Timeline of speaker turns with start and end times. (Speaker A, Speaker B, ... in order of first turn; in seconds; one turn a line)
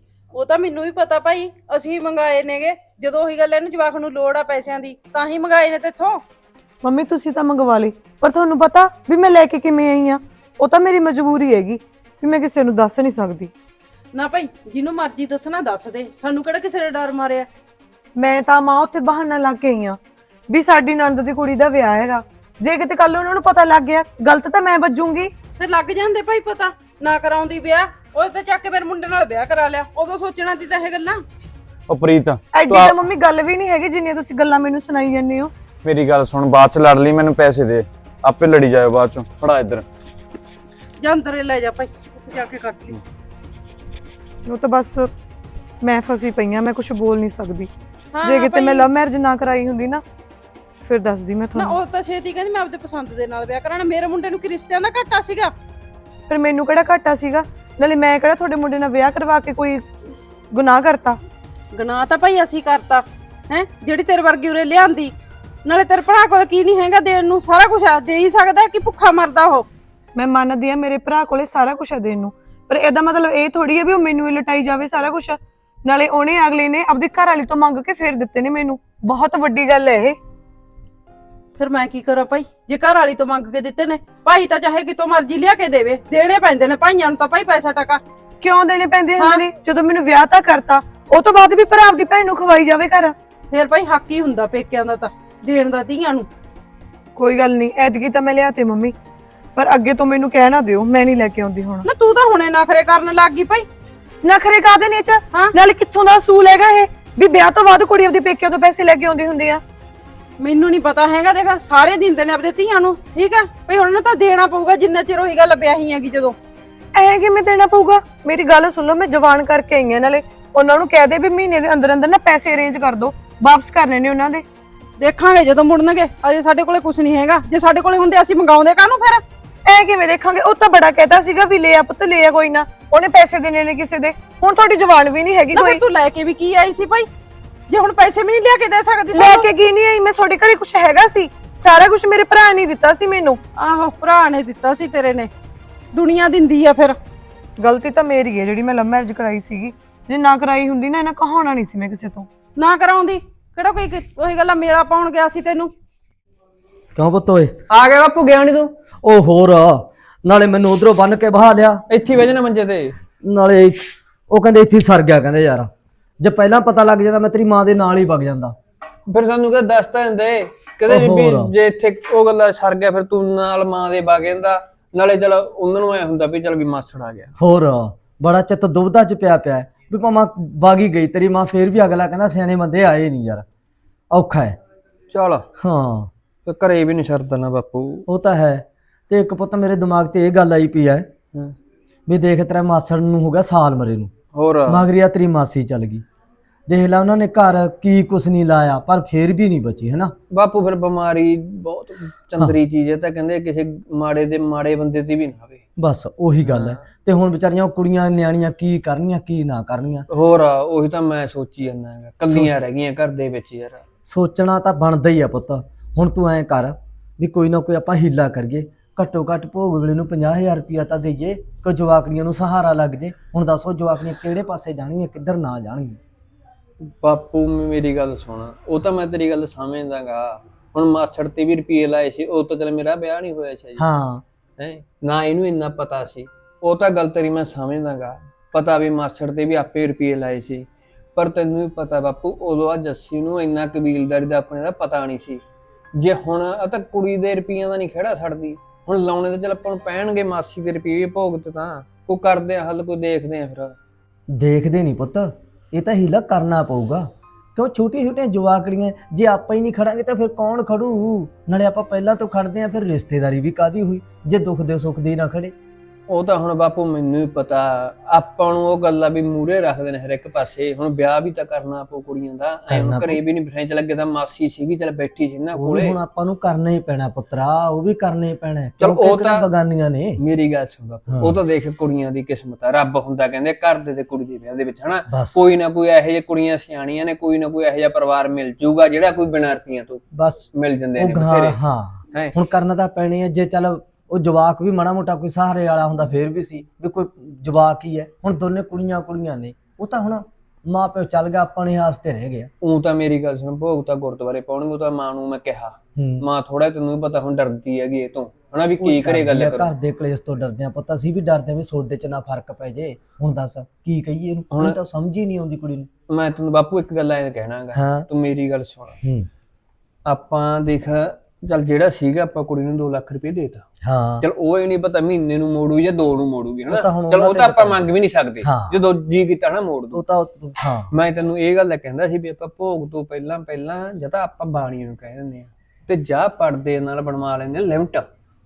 Speaker A: 0.3-6.2
Speaker B: 6.8-13.5
Speaker A: 14.1-17.5
Speaker B: 18.2-20.0
Speaker B: 20.5-25.3
Speaker A: 25.6-31.2
Speaker C: 31.9-33.0
Speaker B: 32.5-35.5
Speaker C: 35.8-39.8
Speaker A: 41.0-43.0
Speaker B: 44.5-45.1
Speaker B: 45.8-47.7
Speaker A: 48.1-48.9
Speaker B: 48.2-50.0
Speaker B: 50.8-51.8
Speaker A: 51.5-55.5
Speaker B: 56.3-59.9
Speaker B: 60.5-61.2
Speaker A: 61.7-65.1
Speaker A: 65.7-69.7
Speaker B: 70.2-80.2
Speaker A: 81.6-88.0
Speaker B: 88.4-93.1
Speaker A: 89.2-89.4
Speaker A: 93.5-96.3
Speaker B: 97.2-99.0
Speaker B: 99.6-101.8
Speaker A: 101.8-103.7
Speaker B: 104.2-109.6
Speaker A: 110.4-116.4
Speaker B: 117.0-124.5
Speaker A: 125.0-129.2
Speaker B: 129.7-135.8
Speaker A: 135.5-137.1
Speaker A: 137.7-139.5
Speaker B: 139.1-143.4
Speaker A: 143.6-145.3
Speaker A: 145.9-147.0
Speaker B: 147.6-152.3
Speaker A: 152.6-155.7
Speaker D: 157.0-157.6
Speaker E: 157.7-158.7
Speaker D: 159.0-161.8
Speaker E: 161.9-163.0
Speaker D: 163.2-168.6
Speaker E: 169.1-177.3
Speaker D: 170.9-171.5
Speaker D: 177.4-183.4
Speaker D: 184.1-184.6
Speaker E: 185.1-185.5
Speaker D: 185.6-186.1
Speaker E: 186.5-188.1
Speaker D: 188.1-191.1
Speaker D: 192.1-194.1
Speaker E: 194.3-194.8
Speaker D: 194.7-196.1
Speaker D: 196.7-200.1
Speaker E: 200.3-205.6
Speaker D: 205.8-210.1
Speaker E: 206.4-206.8
Speaker E: 210.1-213.8
Speaker D: 214.1-226.0
Speaker E: 226.8-233.8
Speaker D: 233.8-234.2
Speaker E: 234.6-240.7
Speaker E: 241.2-245.4
Speaker E: 246.0-253.8
Speaker D: 254.3-265.5
Speaker E: 266.1-276.0
Speaker D: 272.7-273.2
Speaker D: 275.6-280.2
Speaker E: 278.8-279.5
Speaker E: 280.2-290.0
Speaker D: 281.1-281.4
Speaker D: 285.1-285.4
Speaker D: 290.1-302.5
Speaker E: 290.5-291.6
Speaker E: 302.6-309.7
Speaker D: 306.0-306.3
Speaker D: 308.8-315.9
Speaker E: 314.5-314.8
Speaker E: 316.1-319.0
Speaker D: 317.7-318.1
Speaker D: 319.0-319.3
Speaker E: 320.1-323.7
Speaker D: 323.8-324.2
Speaker E: 324.2-330.0
Speaker D: 326.7-327.9
Speaker D: 328.4-328.8
Speaker D: 329.9-330.9
Speaker E: 330.9-338.1